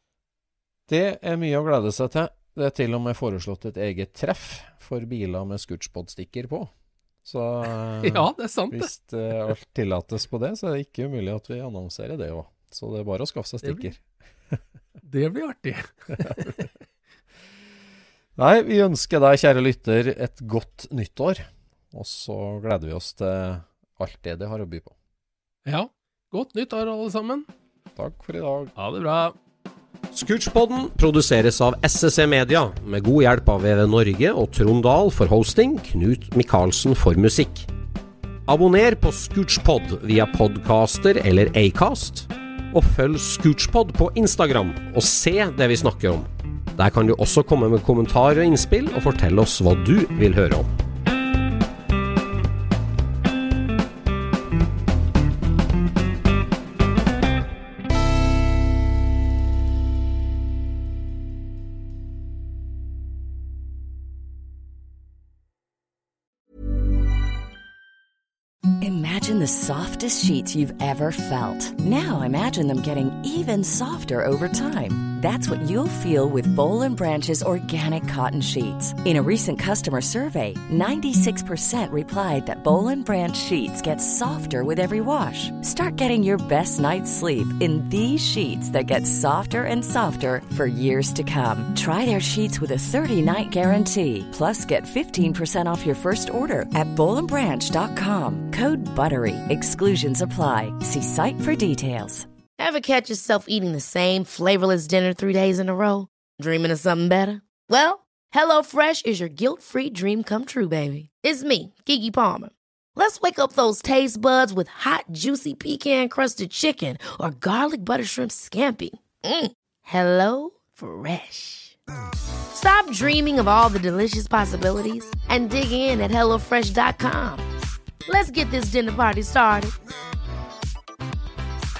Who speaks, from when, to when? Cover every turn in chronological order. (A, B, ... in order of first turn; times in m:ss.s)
0:00.9-0:06.7 A
0:07.2-0:14.6 A
0:08.0-0:08.9 B
0:13.6-0:13.9 B
0:15.0-0:16.7 B
0:16.2-0:16.6 A
0:18.4-0:24.9 A
0:25.6-0:27.5 B
0:28.0-0:28.7 A
0:28.8-0:29.3 B
0:30.1-0:37.7 C
0:38.5-0:50.7 C
1:08.8-1:42.3 D
1:42.6-2:01.8 E
2:02.5-2:07.4 E
2:08.1-2:09.7 E